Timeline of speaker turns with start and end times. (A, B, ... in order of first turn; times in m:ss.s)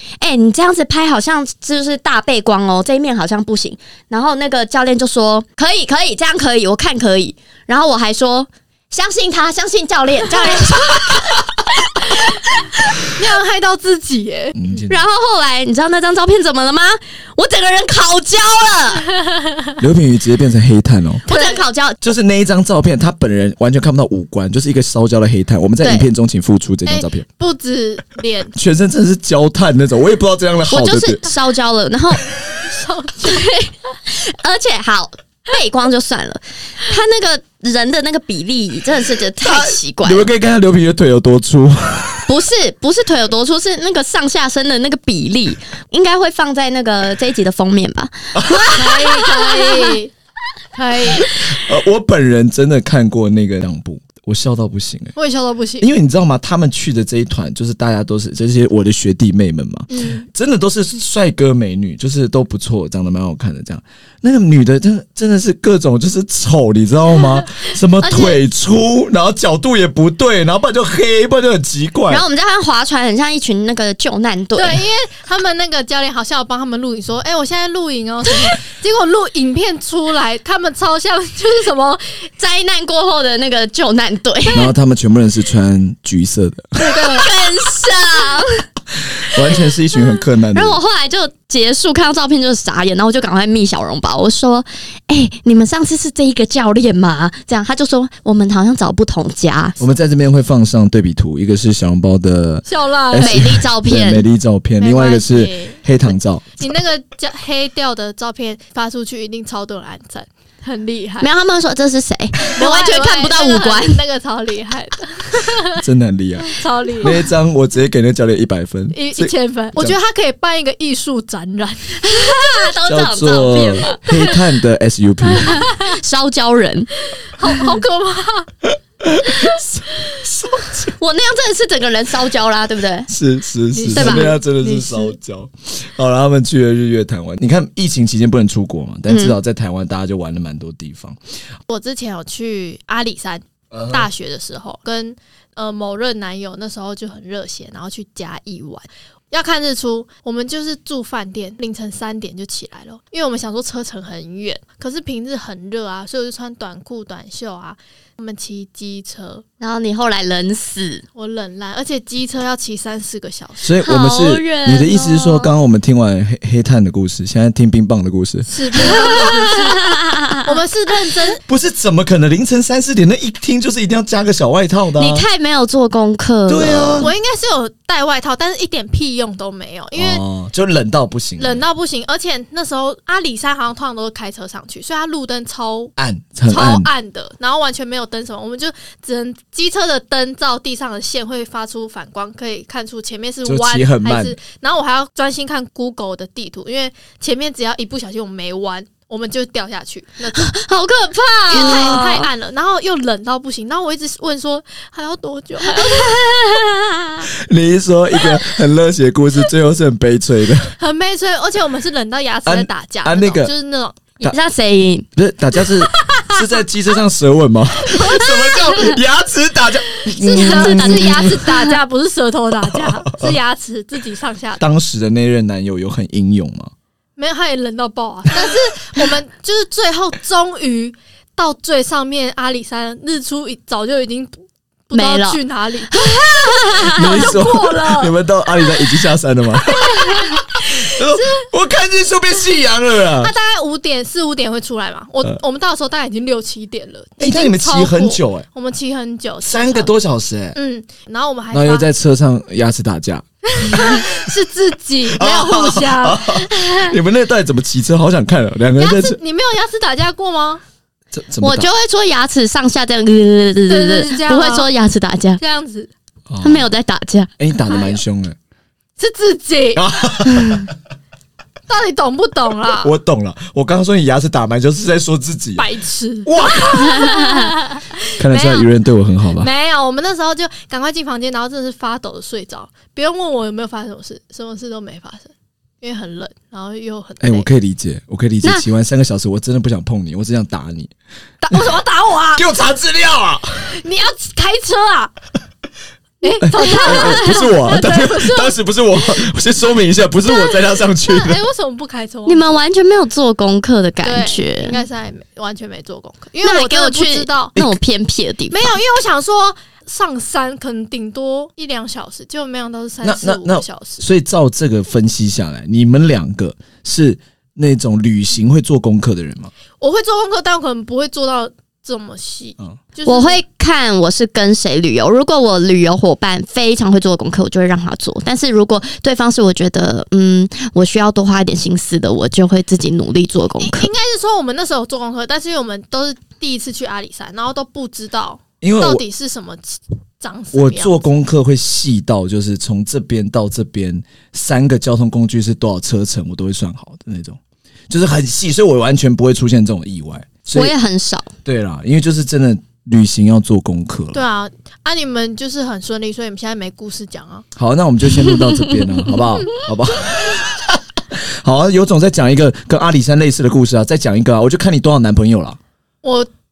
0:00.2-0:13.0 A
0:13.0-0:14.6 B
0:14.6-0:15.0 C
0:14.9-0:19.1 A
0:19.8-0:21.2 C
0:21.3-0:22.0 A
0:21.3-0:21.6 B
0:22.0-0:27.2 C
0:25.8-0:26.1 A
0:26.9-0:28.5 B
0:28.6-0:31.3 C
0:30.7-0:32.2 A
0:32.5-0:33.6 B
0:33.2-0:40.3 A
0:39.4-0:42.2 C
0:42.3-0:49.9 A
0:48.3-0:48.8 C
0:48.7-0:50.1 B
0:50.7-0:51.3 B
0:51.2-0:55.2 C
0:55.2-0:55.9 B
0:55.8-1:12.2 C
0:59.9-1:00.3 B
1:08.0-1:08.4 A
1:12.1-1:14.8 A
1:14.6-1:22.1 B
1:22.4-1:24.7 A
1:24.5-1:26.8 C
1:26.8-1:28.7 A
1:26.9-1:27.3 B
1:29.3-1:30.8 C
1:30.5-1:39.8 A
1:39.8-1:46.8 C
1:42.7-1:43.5 B
1:43.2-1:44.2 A
1:44.8-1:45.8 B
1:46.6-1:51.3 B
1:51.2-1:54.0 A
1:52.5-1:55.8 B
1:55.8-2:00.0 C
1:56.5-1:57.2 B
1:58.9-2:02.7 B
2:02.0-2:04.0 A
2:02.9-2:05.7 C
2:05.3-2:06.9 A
2:07.2-2:08.5 B
2:09.0-2:10.9 C
2:10.0-2:10.2 B
2:11.0-2:13.1 A
2:13.1-2:21.2 C
2:13.7-2:15.2 B
2:14.0-2:14.3 A
2:19.1-2:19.4 A
2:21.7-2:39.4 B
2:23.7-2:24.1 C
2:39.6-2:41.0 A
2:41.2-2:43.7 B
2:43.6-2:49.3 C
2:43.8-2:45.5 A
2:48.5-2:51.4 B
2:48.8-2:50.4 A
2:51.5-2:55.2 C
2:55.0-2:57.1 A
2:56.5-2:57.1 C
2:57.0-3:00.2 B
3:00.0-3:01.6 C
3:01.4-3:05.9 B
3:06.0-3:06.9 C
3:06.5-3:20.5 B
3:13.4-3:14.4 C
3:20.3-3:22.3 A
3:21.5-3:26.1 B
3:25.6-3:27.2 A
3:27.3-3:30.8 C
3:30.8-3:34.2 B
3:32.4-3:33.5 C
3:34.2-3:35.1 A
3:35.2-3:41.4 C
3:38.0-3:38.7 B
3:40.2-3:44.6 B
3:40.3-3:41.7 A
3:42.6-3:43.4 C
3:44.6-3:46.7 C
3:47.2-3:58.2 B
3:54.9-3:55.4 A
3:55.9-3:57.2 A
3:56.9-4:03.3 C
3:59.9-4:01.5 B
4:03.2-4:09.9 B
4:07.2-4:08.4 C
4:09.4-4:10.6 C
4:10.6-4:11.9 B
4:11.5-4:14.2 C
4:13.5-4:16.9 B
4:15.0-4:19.2 C
4:18.8-4:20.6 B
4:21.1-4:21.7 C
4:21.4-4:25.4 A
4:23.7-4:24.7 B
4:25.4-4:25.9 B
4:26.3-4:26.7 C
4:26.4-4:27.3 A
4:27.4-4:28.4 C
4:27.7-4:28.0 B
4:29.0-4:29.9 B
4:29.8-4:30.7 C
4:30.3-4:30.6 A
4:31.7-4:32.9 B
4:32.7-4:35.7 C
4:35.6-4:38.7 B
4:36.3-4:37.2 C
4:36.7-4:37.5 A
4:38.2-4:39.5 C
4:39.4-4:47.5 B
4:47.2-4:50.9 C
4:51.4-4:52.5 B
4:52.4-4:53.8 C
4:53.7-4:55.1 B
4:56.2-4:58.6 B
4:56.4-5:01.4 C
4:56.5-4:57.2 A
5:00.2-5:02.6 B
5:02.3-5:04.8 A
5:04.0-5:07.6 B
5:06.4-5:08.8 A
5:08.5-5:14.0 B
5:13.0-5:19.5 C
5:19.8-5:23.4 B
5:23.1-5:33.9 A
5:33.6-5:41.0 B
5:38.6-5:39.0 C
5:40.5-5:47.4 C
5:47.9-5:50.7 C
5:50.5-5:51.3 A
5:51.4-5:54.2 C
5:54.1-5:57.4 B
5:57.6-6:05.6 C
6:06.0-6:06.3 B